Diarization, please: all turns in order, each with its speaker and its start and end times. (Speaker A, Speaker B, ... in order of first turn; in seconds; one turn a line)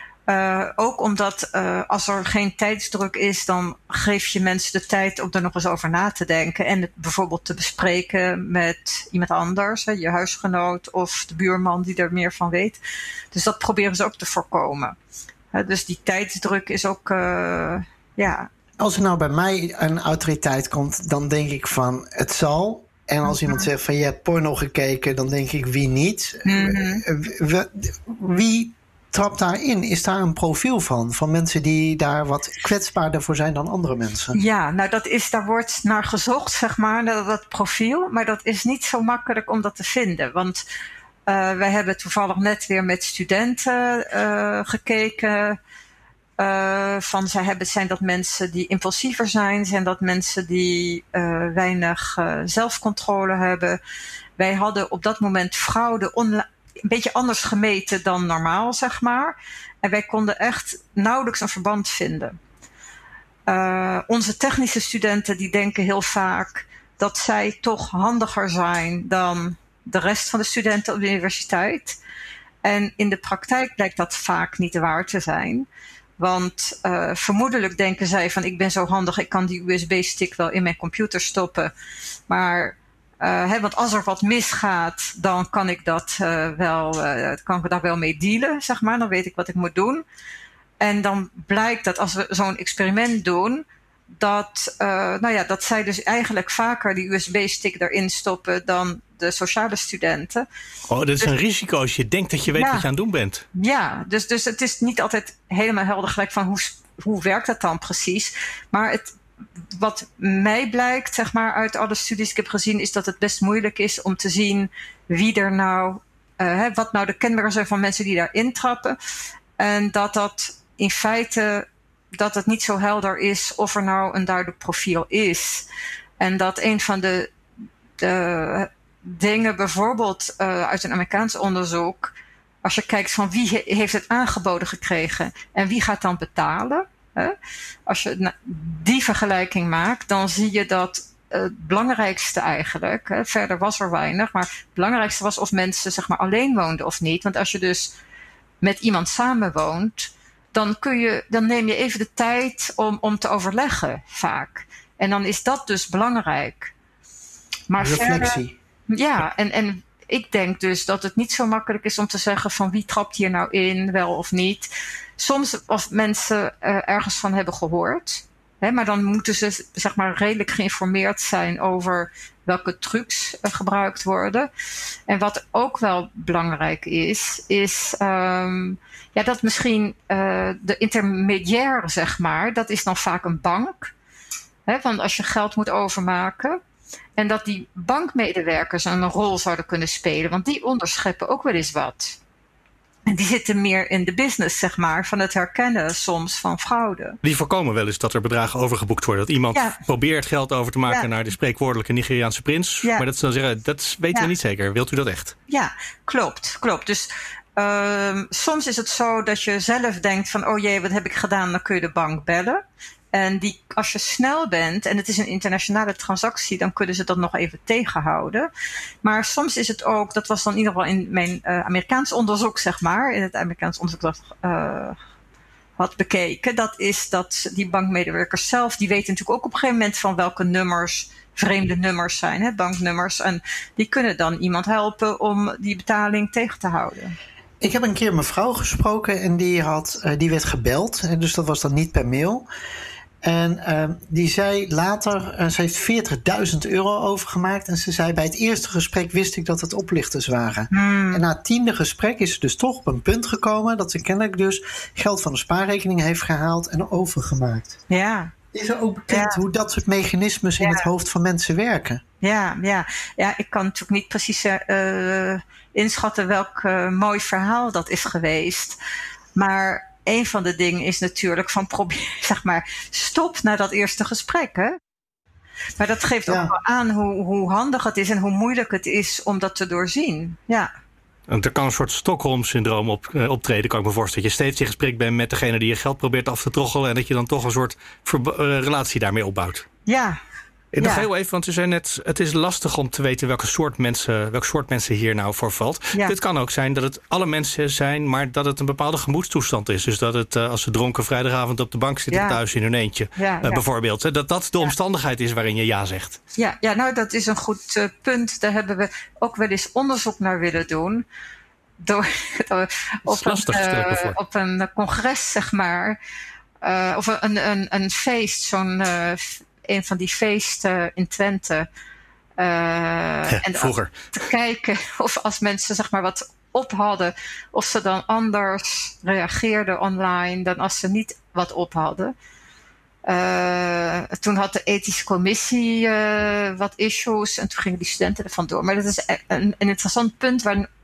Speaker A: 0.3-12.8
Speaker A: 13.3-14.9
Speaker A: 15.5-18.5
Speaker B: 18.8-34.4
Speaker A: 23.2-23.7
Speaker A: 26.4-27.0
Speaker A: 34.3-40.6
Speaker A: 41.3-45.6
Speaker A: 46.4-53.8
Speaker A: 54.4-62.4
Speaker A: 63.5-72.0
Speaker A: 72.6-75.7
Speaker A: 76.2-81.7
Speaker A: 82.3-90.0
Speaker A: 90.8-100.4
Speaker C: 100.9-103.4
Speaker A: 102.5-102.8
Speaker A: 103.5-109.2
Speaker A: 109.7-119.0
Speaker A: 119.6-125.7
Speaker A: 126.2-127.3
Speaker A: 128.0-132.1
Speaker A: 132.6-137.3
Speaker A: 137.8-147.9
Speaker A: 148.6-156.7
Speaker A: 157.7-174.5
Speaker B: 157.8-158.5
Speaker A: 175.1-183.9
Speaker A: 184.7-186.6
Speaker A: 187.2-192.2
Speaker A: 193.1-197.2
Speaker C: 197.2-205.3
Speaker A: 205.5-212.6
Speaker A: 213.1-218.5
Speaker A: 219.0-225.0
Speaker A: 225.8-237.1
Speaker B: 237.6-242.5
Speaker B: 243.2-257.8
Speaker A: 250.7-251.2
Speaker A: 257.9-258.3
Speaker B: 258.5-262.0
Speaker A: 259.1-259.4
Speaker A: 260.6-260.9
Speaker A: 262.2-268.8
Speaker A: 269.4-274.8
Speaker A: 275.8-280.7
Speaker B: 276.2-276.5
Speaker C: 281.3-289.6
Speaker A: 289.9-290.2
Speaker C: 290.7-306.2
Speaker A: 290.8-291.1
Speaker A: 302.1-302.4
Speaker A: 303.2-303.6
Speaker A: 306.4-311.0
Speaker A: 311.8-316.0
Speaker C: 313.1-314.1
Speaker A: 316.6-321.7
Speaker A: 322.4-332.1
Speaker C: 323.3-323.9
Speaker A: 333.1-340.7